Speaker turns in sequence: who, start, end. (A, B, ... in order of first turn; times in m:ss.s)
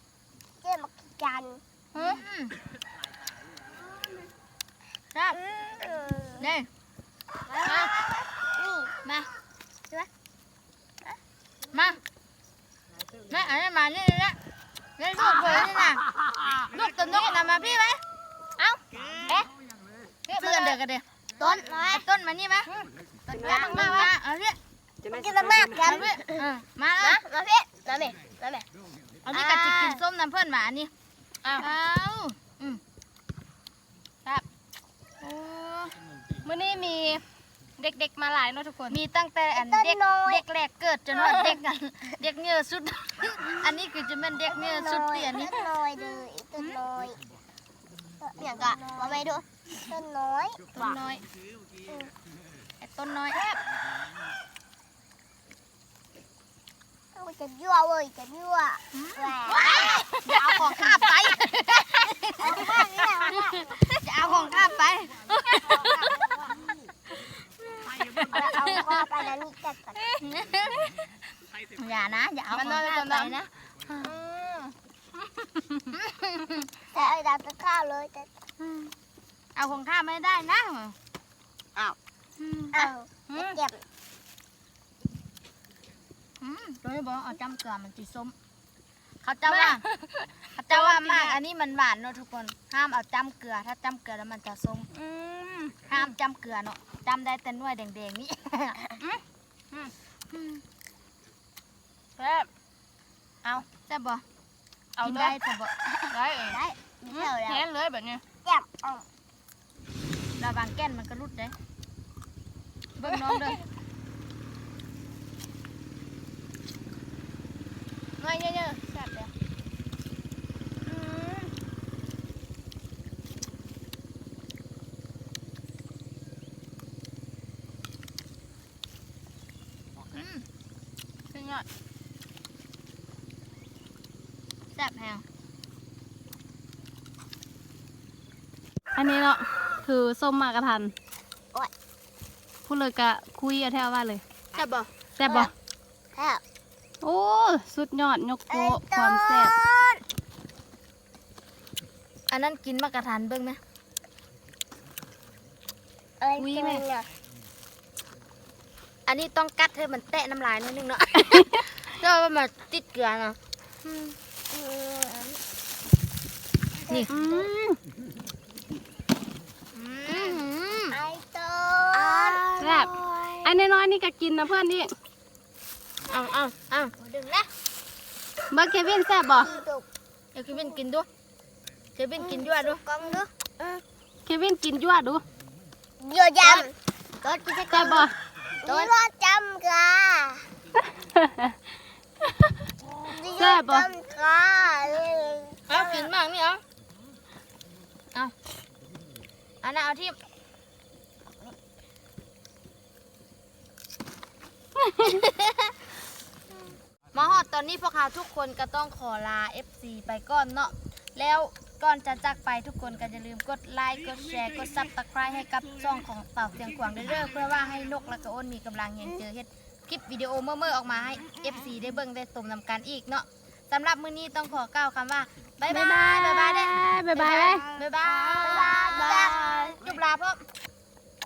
0:00.6-0:01.6 A
0:01.9-0:02.2 B
0:02.0-0:02.5 C
0:05.1-0:05.4 C
0:05.3-0:06.5 A
0:06.4-0:06.7 C
0:07.5-0:09.0 A
0:07.6-0:07.9 B
0:09.0-0:09.3 C
0:11.7-0:12.0 C
0:13.3-0:14.4 C
0:15.0-0:16.0 C
0:15.2-0:15.7 B
0:16.7-0:18.0 C
0:16.8-0:17.3 B
0:18.6-0:19.4 B
0:20.3-0:20.8 B
0:20.3-0:21.0 C
0:21.4-0:22.0 A
0:21.9-0:22.7 C
0:22.7-0:24.1 B
0:23.3-0:24.6 C
0:25.0-0:26.5 A
0:25.8-0:27.2 C
0:27.0-0:28.6 B
0:29.3-0:30.9 C
0:29.3-0:30.0 B
0:31.5-0:32.8 C
0:35.2-0:36.0 C
0:36.4-0:37.2 B
0:37.8-0:39.0 B
0:38.9-0:45.5 C
0:39.5-0:40.4 A
0:41.2-0:41.5 B
0:44.4-0:47.2 A
0:48.2-0:50.6 A
0:48.4-0:49.2 B
0:50.7-0:51.2 C
0:52.8-0:53.4 C
0:53.3-0:53.6 B
0:57.1-0:59.9 A
0:58.9-1:02.9 C
0:59.7-1:00.8 B
1:02.4-1:03.8 A
1:03.8-1:06.6 C
1:07.8-1:09.1 C
1:08.1-1:10.2 A
1:10.1-1:11.1 C
1:11.8-1:14.1 C
1:12.5-1:13.3 B
1:14.0-1:14.7 B
1:15.4-1:15.9 B
1:15.9-1:16.7 C
1:16.9-1:18.3 A
1:18.6-1:18.9 C
1:19.5-1:21.0 C
1:22.4-1:22.9 C
1:22.7-1:23.8 A
1:23.3-1:23.6 B
1:26.4-1:28.3 C
1:29.2-1:29.8 C
1:29.5-1:31.4 B
1:30.6-1:34.9 C
1:34.9-1:35.8 B
1:35.9-1:38.9 C
1:38.9-1:39.9 B
1:40.3-1:40.6 C
1:42.2-1:42.5 B
1:43.9-1:44.2 C
1:45.0-1:45.3 B
1:45.0-1:45.7 C
1:46.1-1:48.2 B
1:46.5-1:47.6 A
1:48.4-1:49.0 A
1:50.4-1:51.5 C
1:53.0-1:53.6 C
1:53.1-1:53.3 B
1:58.2-1:59.3 B
2:00.8-2:01.5 B
2:10.1-2:10.4 C
2:11.3-2:11.6 B
2:14.7-2:15.2 C
2:18.9-2:20.9 B
2:22.7-2:24.2 B
2:24.5-2:25.4 C
2:25.2-2:25.5 B
2:26.1-2:26.4 A
2:27.0-2:29.6 B
2:28.5-2:30.0 A
2:32.3-2:33.6 C
2:36.2-2:37.1 A
2:36.4-2:36.8 B
2:39.1-2:44.2 C
2:41.3-2:41.6 B
2:44.5-2:45.4 A
2:46.9-2:47.5 A
2:47.1-2:47.8 B
2:49.7-2:51.0 C
2:50.1-2:50.4 A
2:50.9-2:53.5 A
2:52.1-2:54.9 B
2:56.1-2:57.5 C
2:58.5-2:59.5 B
2:59.3-2:59.8 A
3:00.3-3:01.1 C
3:02.0-3:02.8 C
3:02.2-3:03.8 A
3:04.2-3:05.2 B
3:06.0-3:08.1 A
3:06.4-3:06.7 C
3:07.7-3:08.1 B
3:08.6-3:10.4 A
3:11.2-3:11.5 B
3:13.0-3:16.1 A
3:13.3-3:13.9 B
3:15.7-3:16.6 C
3:19.6-3:20.2 C
3:24.8-3:25.2 B
3:25.0-3:25.7 C
3:27.1-3:50.4 C
3:45.7-3:47.7 B
3:48.4-3:49.8 A